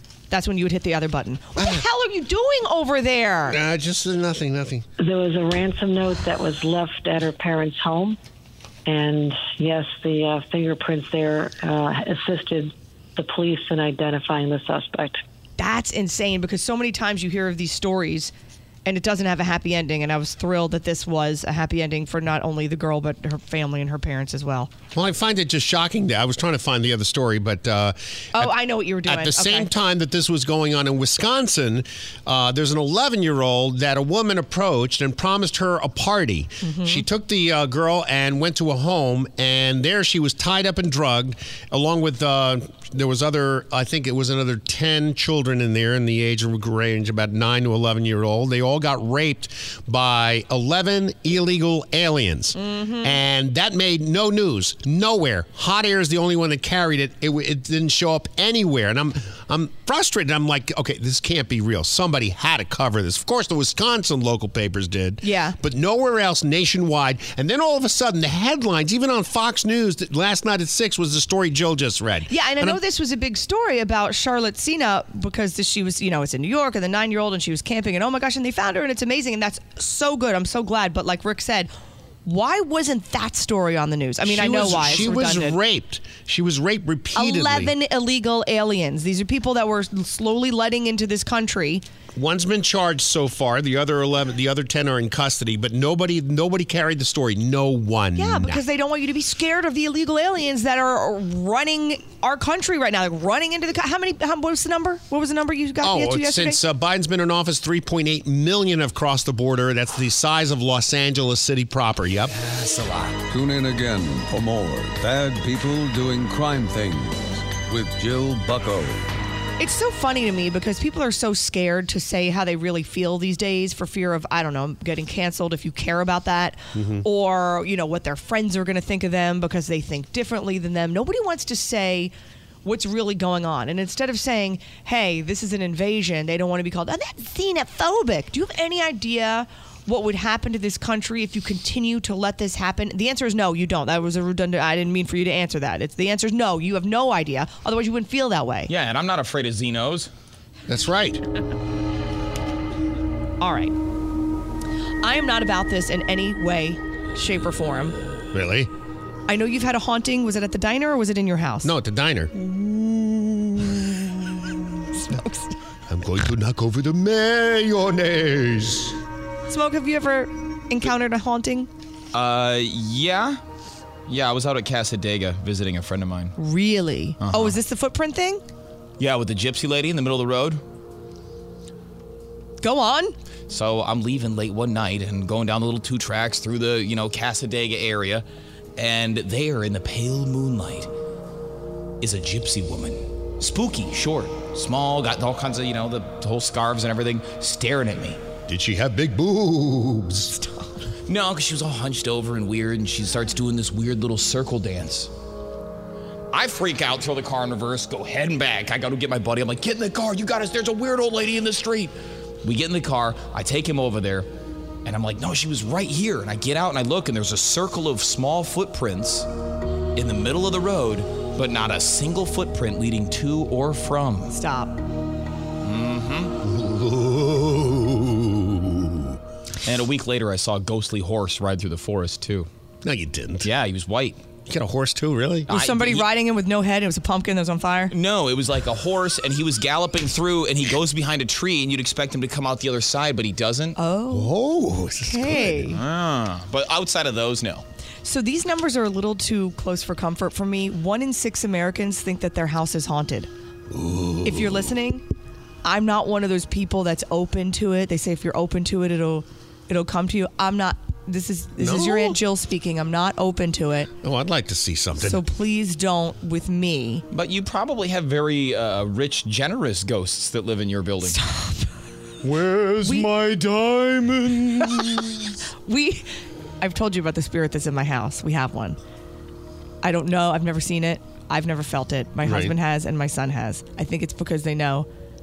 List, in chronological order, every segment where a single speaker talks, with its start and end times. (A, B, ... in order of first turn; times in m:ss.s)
0:00.3-0:03.6 A
0:01.6-0:01.8 B
0:03.5-0:04.8 B
0:05.0-0:08.2 C
0:08.8-0:15.2 C
0:15.6-0:18.3 A
0:18.8-0:24.7 A
0:24.9-1:12.8 B
0:28.3-0:29.7 A
0:36.6-0:37.0 A
0:52.6-0:53.2 A
1:05.2-1:05.6 A
1:12.3-1:21.7 A
1:22.2-1:25.6 A
1:24.2-1:27.7 B
1:27.2-1:31.8 A
1:32.1-1:38.6 B
1:38.2-1:46.6 A
1:45.8-1:52.3 B
1:52.3-1:53.2 D
1:53.3-1:59.1 E
1:59.6-2:12.1 A
2:06.7-2:07.0 B
2:12.6-2:28.7 A
2:28.7-2:30.1 D
2:30.7-2:31.2 B
2:33.4-2:33.7 A
2:35.0-2:38.0 A
2:38.3-2:38.7 B
2:39.3-2:41.7 A
2:41.6-2:44.5 B
2:45.0-2:45.5 A
2:45.9-2:48.9 B
2:49.5-2:51.7 A
2:52.1-2:53.4 D
2:54.1-2:56.3 D
2:56.4-2:58.4 A
2:57.2-2:57.6 D
2:59.0-3:00.6 D
3:02.6-3:03.1 A
3:03.5-3:08.2 D
3:08.8-3:10.9 D
3:12.0-3:18.2 D
3:18.5-3:20.3 B
3:21.1-3:25.1 D
3:26.3-3:34.3 D
3:34.8-3:39.3 D
3:40.0-3:44.3 D
3:44.3-3:44.8 A
3:45.6-3:46.3 D
3:46.4-3:49.2 B
3:49.6-3:52.5 D
3:52.8-3:53.5 B
3:53.4-3:54.2 D
3:54.5-3:55.5 B
3:55.5-3:56.1 D
3:55.5-3:57.9 A
3:57.9-4:03.8 D
4:03.8-4:04.3 A
4:04.1-4:05.7 B
4:05.0-4:05.8 A
4:05.7-4:07.6 D
4:08.0-4:13.3 A
4:13.7-4:14.7 B
4:14.2-4:15.0 A
4:15.6-4:23.9 A
4:21.6-4:22.2 B
4:24.0-4:25.2 B
4:25.0-4:27.0 A
4:27.1-4:31.2 D
4:31.1-4:31.6 A
4:32.2-4:35.1 B
4:32.8-4:33.1 A
4:35.6-4:36.0 A
4:36.6-4:38.8 A
4:39.8-4:44.9 A
4:42.2-4:42.6 B